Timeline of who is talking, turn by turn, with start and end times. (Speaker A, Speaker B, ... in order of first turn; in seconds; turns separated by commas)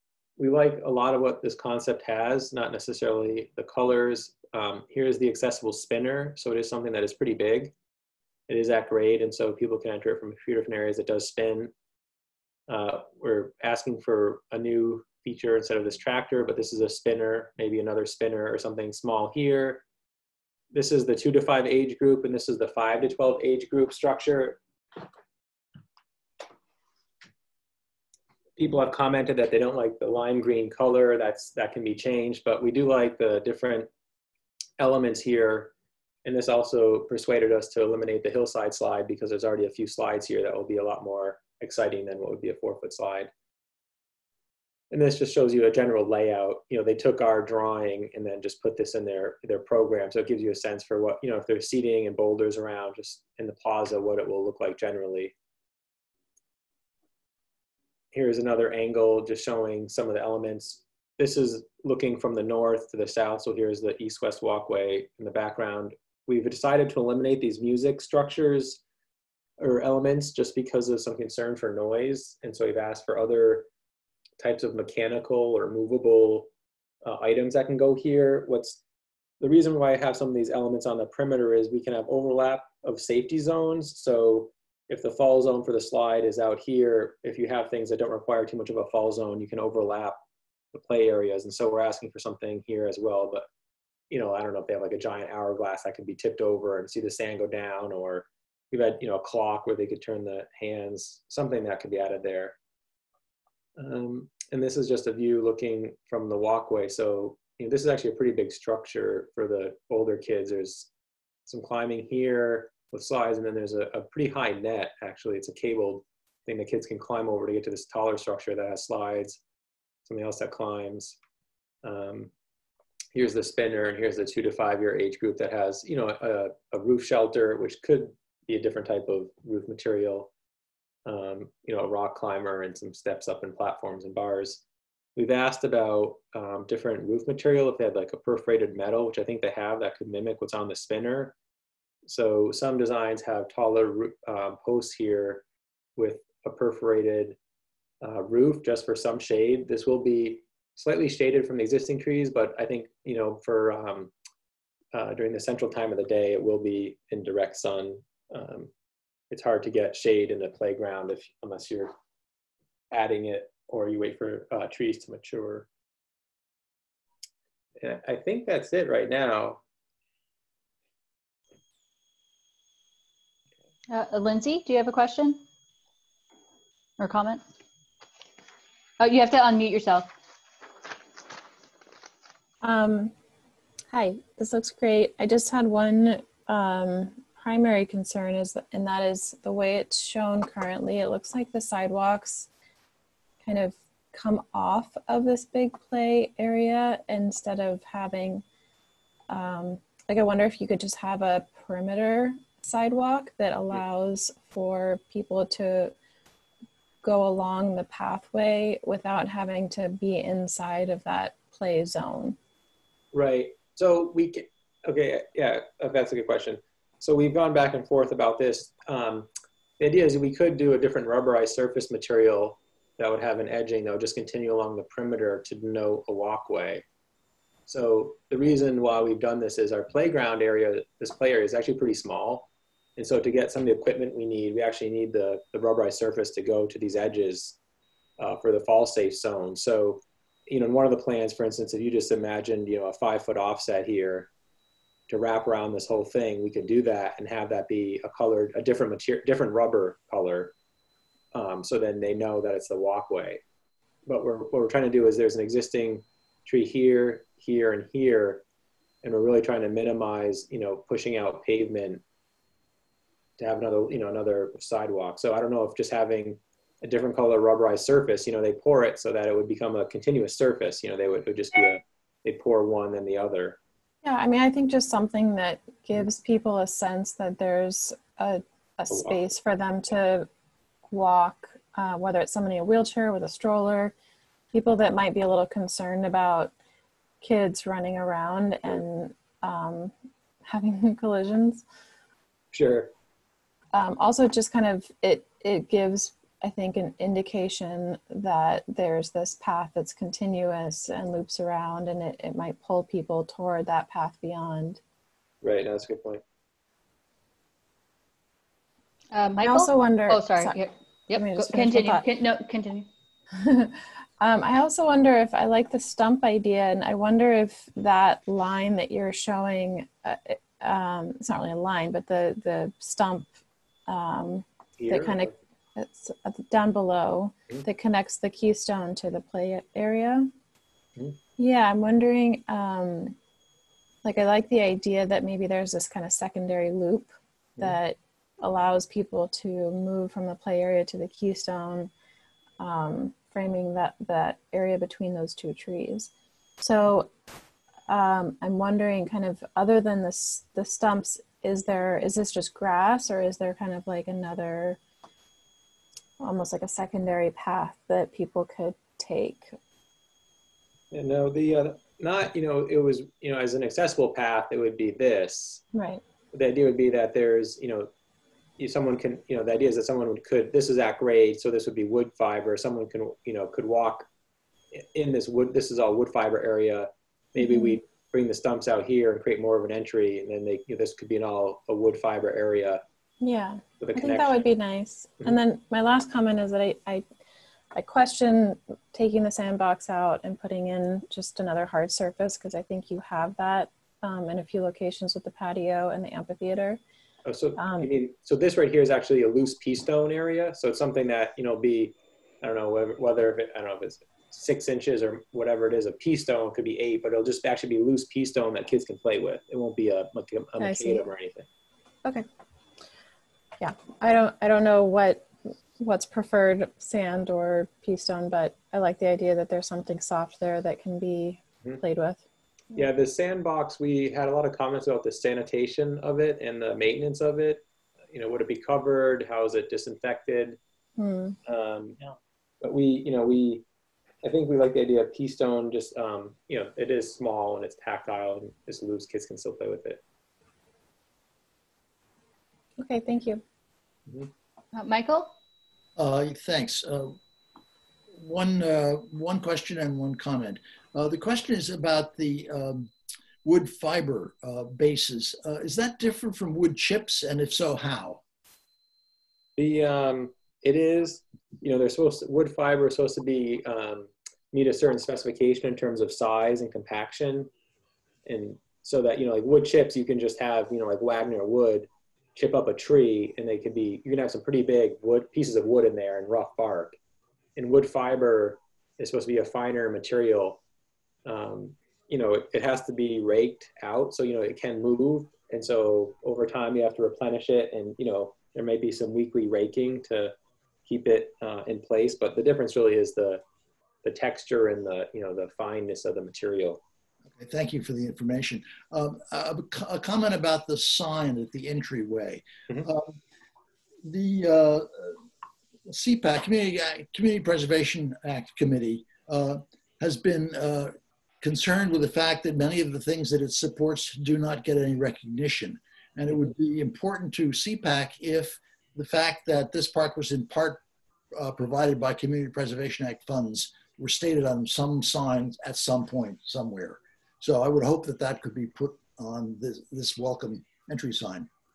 Speaker A: 0.4-7.7, Speaker A: 8.5-11.7, Speaker A: 12.7-19.9, Speaker A: 20.7-24.6, Speaker A: 28.6-33.9, Speaker A: 34.8-35.7, Speaker A: 36.2-43.3, Speaker A: 44.9-55.3, Speaker A: 58.1-68.8, Speaker A: 69.6-73.7, Speaker A: 74.4-76.5, Speaker A: 77.0-78.8, Speaker A: 79.4-90.2, Speaker A: 90.7-93.5, Speaker A: 94.1-102.6, Speaker A: 103.8-110.9, Speaker A: 111.5-119.4, Speaker A: 120.1-121.2, Speaker A: 121.8-122.3, Speaker A: 123.2-130.3, Speaker A: 131.1-134.6, Speaker A: 135.2-141.4, Speaker A: 142.1-145.4, Speaker A: 146.0-147.4, Speaker A: 148.0-154.1, Speaker A: 154.9-158.7, Speaker A: 159.3-161.9, Speaker A: 162.9-165.7, Speaker A: 167.8-169.6, Speaker B: 173.9-175.4, Speaker B: 177.0-177.4, Speaker B: 179.0-180.1, Speaker C: 182.6-183.1, Speaker C: 183.9-192.5, Speaker C: 193.4-198.4, Speaker C: 199.3-205.9, Speaker C: 207.0-212.4, Speaker A: 213.1-226.8, Speaker A: 227.7-237.6, Speaker A: 238.2-244.3, Speaker A: 245.1-250.5, Speaker A: 251.3-253.4, Speaker A: 254.1-258.4, Speaker A: 259.0-262.0, Speaker A: 263.4-273.6, Speaker C: 274.0-280.3, Speaker A: 278.9-279.2, Speaker C: 280.9-283.9, Speaker C: 284.5-286.5, Speaker C: 287.2-289.9, Speaker C: 290.4-291.6, Speaker A: 292.5-292.9, Speaker C: 293.7-304.8, Speaker A: 305.4-306.2, Speaker B: 309.1-312.9, Speaker C: 309.4-310.6, Speaker C: 311.1-312.1, Speaker C: 313.4-323.3, Speaker C: 323.9-330.3, Speaker A: 324.8-325.3, Speaker C: 331.4-333.2, Speaker C: 334.0-341.9, Speaker C: 342.6-347.1, Speaker C: 347.9-354.8, Speaker C: 356.2-359.5, Speaker A: 360.9-365.6, Speaker C: 365.7-366.0, Speaker A: 366.3-367.9, Speaker A: 368.6-374.1, Speaker A: 374.7-382.8, Speaker C: 377.4-377.8, Speaker C: 383.2-387.1, Speaker A: 383.8-384.6, Speaker C: 387.7-396.8, Speaker A: 397.2-411.5, Speaker C: 397.6-397.9, Speaker C: 410.6-411.1, Speaker C: 413.6-422.2, Speaker A: 422.7-430.6, Speaker C: 431.0-431.4, Speaker A: 431.5-432.0, Speaker A: 432.6-433.6, Speaker A: 434.2-440.0, Speaker C: 442.8-443.4, Speaker B: 444.7-445.3, Speaker D: 446.0-447.2, Speaker D: 448.1-452.9, Speaker D: 453.4-458.2, Speaker A: 459.6-467.5, Speaker A: 468.2-477.0, Speaker A: 477.6-480.6, Speaker A: 481.3-490.4, Speaker A: 490.9-493.4, Speaker A: 494.0-496.8, Speaker D: 497.4-503.2, Speaker D: 504.0-505.2, Speaker D: 505.9-520.8, Speaker D: 521.3-531.5